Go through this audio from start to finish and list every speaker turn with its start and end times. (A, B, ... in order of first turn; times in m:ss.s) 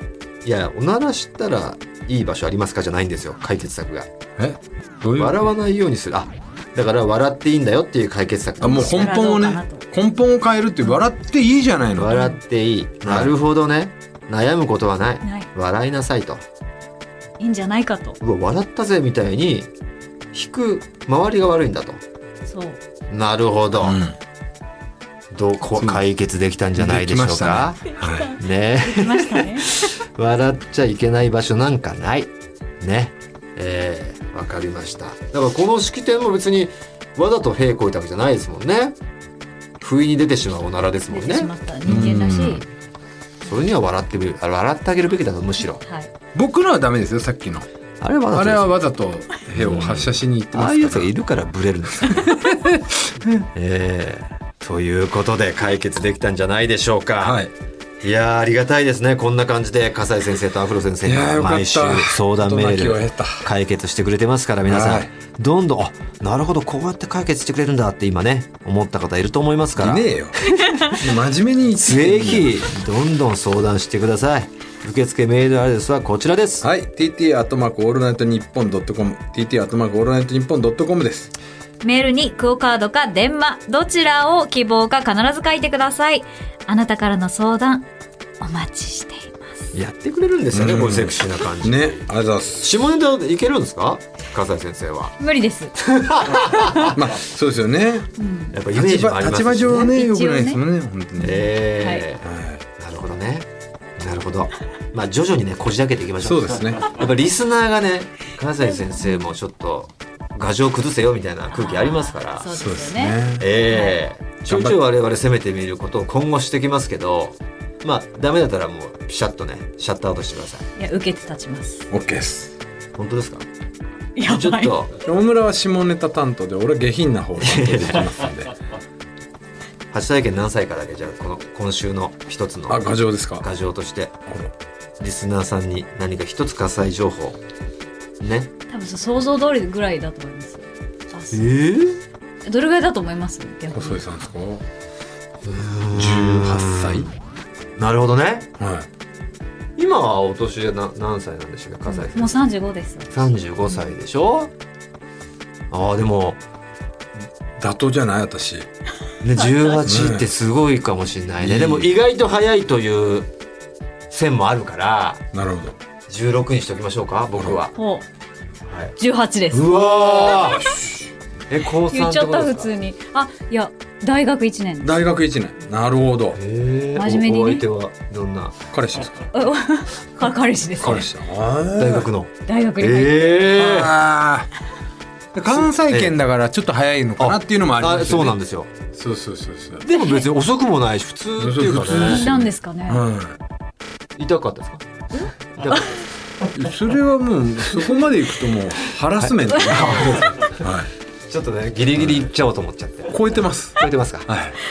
0:00.4-0:04.1 A
0:04.4-0:05.5 B
0:05.2-0:09.1 A
0:08.6-0:12.2 B
0:08.6-0:09.8 C
0:12.0-0:16.4 A
0:12.1-0:12.4 C
0:13.0-0:13.3 B
0:15.2-0:15.5 C
0:17.4-0:18.2 C
0:18.2-0:19.7 A
0:20.3-0:22.0 A
0:22.4-0:22.8 C
0:23.1-0:24.0 A
0:23.8-0:24.2 B
0:25.3-0:39.0 A
0:25.7-0:26.0 B
0:26.7-0:28.4 B
0:28.0-0:29.8 C
0:39.8-0:42.1 A
0:41.1-0:42.6 C
0:41.8-0:42.6 B
0:43.4-0:45.8 A
0:45.8-0:46.1 C
0:46.3-0:47.7 B
0:48.0-0:48.8 A
0:48.3-0:51.1 B
0:49.5-0:52.3 A
0:52.1-0:53.4 B
0:53.5-0:57.4 A
0:57.2-0:57.5 B
0:58.0-1:10.6 A
1:01.0-1:03.5 B
1:04.7-1:05.1 B
1:09.8-1:12.6 B
1:10.6-1:10.9 C
1:11.8-1:16.6 A
1:16.6-1:21.3 B
1:21.8-1:27.9 C
1:28.4-1:29.7 C
1:29.7-1:32.0 A
1:30.5-1:32.8 B
1:32.6-1:35.1 A
1:35.2-1:35.7 C
1:35.8-1:37.0 A
1:36.8-1:38.1 B
1:38.2-1:38.6 C
1:38.5-1:39.9 A
1:38.7-1:41.5 B
1:39.8-1:40.6 C
1:41.2-1:43.5 A
1:41.3-1:42.0 C
1:42.2-1:42.6 B
1:44.0-1:52.5 A
1:46.2-1:47.0 B
1:49.0-1:49.3 C
1:51.5-1:54.0 C
1:52.5-1:53.4 B
1:53.4-2:00.6 A
1:54.5-1:54.8 B
2:00.8-2:01.9 C
2:01.9-2:02.6 B
2:03.0-2:03.4 A
2:04.2-2:04.8 C
2:04.2-2:04.9 A
2:05.0-2:08.6 B
2:07.4-2:08.1 A
2:09.9-2:14.2 A
2:12.7-2:13.4 B
2:15.0-2:17.4 A
2:18.2-2:18.5 A
2:18.7-2:21.6 C
2:21.3-2:22.0 A
2:22.4-2:24.1 C
2:23.7-2:24.6 B
2:25.4-2:27.1 A
2:25.9-2:27.1 B
2:27.8-2:28.5 A
2:28.6-2:28.9 B
2:29.8-2:32.4 A
2:31.8-2:33.1 C
2:33.1-2:34.5 A
2:35.7-2:36.4 A
2:37.6-2:38.7 B
2:39.2-2:43.3 A
2:39.8-2:40.3 B
2:41.4-2:41.9 B
2:44.1-2:45.2 A
2:45.3-2:45.8 B
2:46.1-2:47.7 A
2:47.3-2:47.6 B
2:47.7-2:48.0 C
2:48.7-2:49.0 A
2:49.0-2:49.8 C
2:49.5-2:50.7 A
2:50.2-2:50.9 B
2:51.5-2:52.7 A
2:51.9-2:55.1 C
2:54.8-2:56.4 B
2:56.4-2:58.5 A
2:57.0-2:57.6 C
2:58.7-2:59.3 B
2:59.3-3:01.0 C
3:00.8-3:02.1 B
3:01.8-3:03.9 A
3:02.4-3:03.5 C
3:03.5-3:04.5 B
3:05.3-3:08.4 B
3:05.5-3:06.2 A
3:07.2-3:08.7 A
3:08.9-3:09.8 B
3:09.8-3:12.2 A
3:10.0-3:10.2 C
3:11.4-3:13.4 B
3:12.0-3:13.0 C
3:14.2-3:14.8 A
3:15.1-3:15.9 C
3:15.5-3:16.0 A
3:16.5-3:20.9 B
3:19.2-3:20.6 A
3:21.3-3:23.2 A
3:22.0-3:22.2 B
3:23.1-3:24.6 B
3:23.8-3:24.3 A